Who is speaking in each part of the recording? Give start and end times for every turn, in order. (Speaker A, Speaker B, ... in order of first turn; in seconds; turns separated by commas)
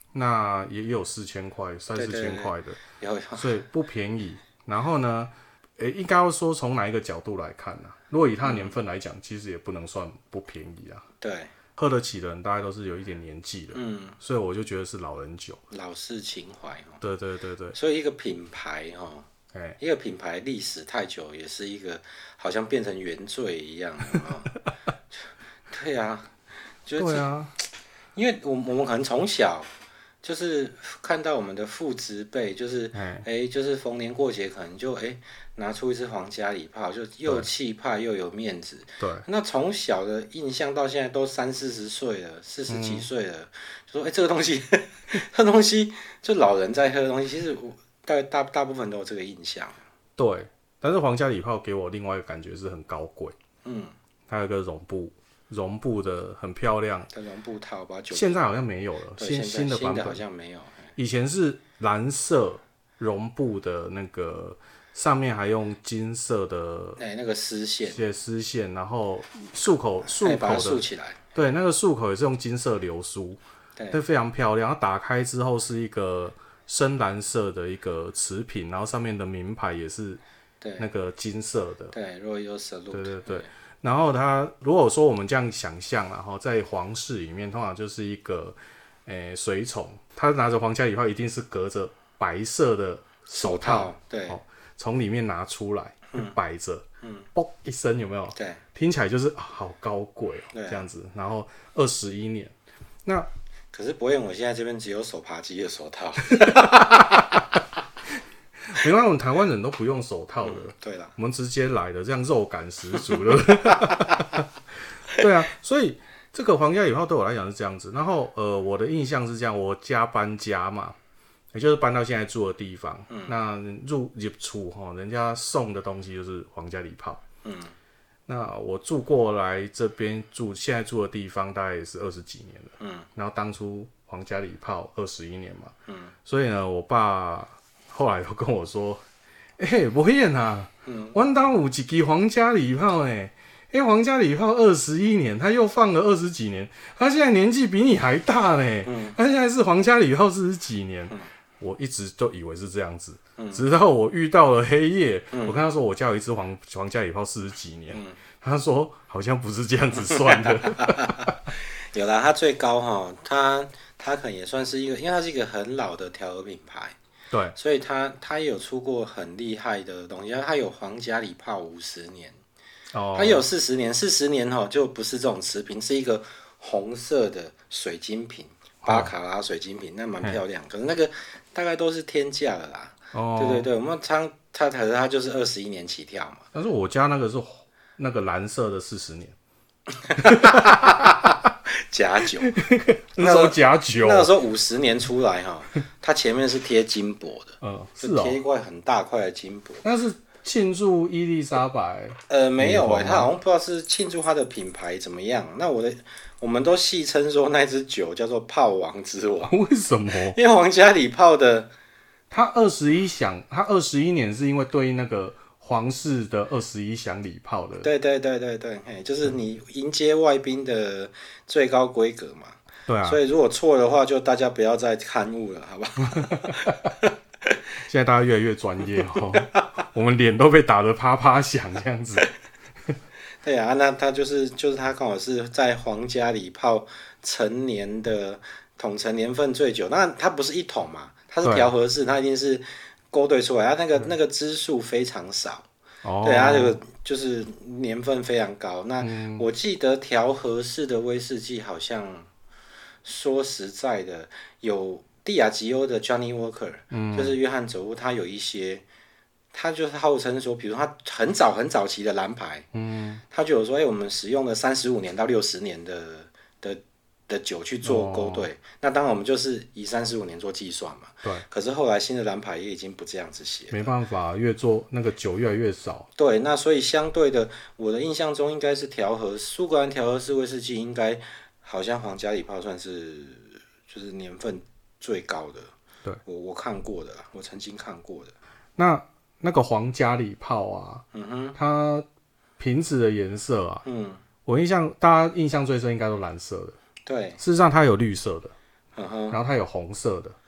Speaker A: 0.1-2.8, Speaker B: 2.0-3.5, Speaker A: 3.4-11.0, Speaker B: 8.4-8.7, Speaker B: 11.2-11.5, Speaker A: 11.8-15.6, Speaker B: 13.7-14.2, Speaker B: 15.7-17.0, Speaker A: 17.0-17.8, Speaker B: 17.7-19.3, Speaker B: 19.8-24.5, Speaker B: 25.7-26.3, Speaker B: 26.9-27.3, Speaker A: 27.0-27.5, Speaker B: 28.1-29.7, Speaker B: 30.2-49.8, Speaker A: 32.9-33.2, Speaker A: 39.0-39.2, Speaker A: 42.7-43.1, Speaker A: 50.2-53.3, Speaker B: 53.6-53.9, Speaker A: 54.3-57.1, Speaker B: 57.1-58.4, Speaker A: 58.1-60.2, Speaker B: 59.2-60.9, Speaker A: 61.0-67.0, Speaker B: 67.0-68.0, Speaker A: 67.9-70.8, Speaker B: 70.1-71.2, Speaker A: 71.3-73.4, Speaker A: 73.9-80.2, Speaker B: 80.6-80.9, Speaker A: 80.8-81.9, Speaker B: 81.9-83.5, Speaker A: 82.9-102.5, Speaker B: 93.3-94.4, Speaker B: 97.0-97.2, Speaker B: 98.3-98.6, Speaker B: 100.5-100.8, Speaker B: 103.7-107.6, Speaker A: 106.4-107.0, Speaker A: 108.7-114.5, Speaker B: 110.4-111.1, Speaker B: 113.1-114.2, Speaker A: 115.1-121.0, Speaker A: 121.5-127.2, Speaker B: 127.4-127.7, Speaker A: 128.3-135.7, Speaker B: 132.8-133.1, Speaker B: 135.9-136.1, Speaker A: 136.2-139.0, Speaker A: 139.6-161.4, Speaker B: 140.9-141.1, Speaker B: 148.9-149.2, Speaker B: 153.4-153.6, Speaker B: 155.3-155.6, Speaker B: 160.0-166.9, Speaker B: 167.6-172.4, Speaker A: 172.9-173.4, Speaker B: 173.1-186.4, Speaker A: 178.8-179.1, Speaker A: 183.1-183.7, Speaker A: 186.5-189.4, Speaker B: 190.1-192.6, Speaker A: 190.1-191.2, Speaker A: 192.4-194.3, Speaker B: 193.2-199.8, Speaker A: 197.6-198.4, Speaker A: 199.8-203.3, Speaker B: 202.3-209.6, Speaker A: 209.5-210.4, Speaker B: 210.1-211.7, Speaker A: 212.3-217.9, Speaker B: 217.8-227.6, Speaker A: 222.9-223.2, Speaker A: 226.1-226.8, Speaker A: 227.8-232.3, Speaker B: 233.4-245.7, Speaker A: 241.4-241.7, Speaker A: 246.0-246.8, Speaker B: 246.2-252.3, Speaker A: 249.0-249.4, Speaker B: 253.0-258.8, Speaker A: 256.9-257.4, Speaker B: 259.5-262.7, Speaker A: 262.7-263.2, Speaker B: 263.3-273.9, Speaker A: 267.8-268.5, Speaker A: 273.7-276.1, Speaker B: 276.2-285.7, Speaker B: 286.2-288.3, Speaker A: 288.8-292.1, Speaker B: 291.1-291.6, Speaker A: 292.6-293.8, Speaker B: 293.8-294.2, Speaker A: 294.4-296.8, Speaker B: 297.1-297.4, Speaker A: 297.4-298.5, Speaker B: 298.9-299.4, Speaker A: 299.3-300.4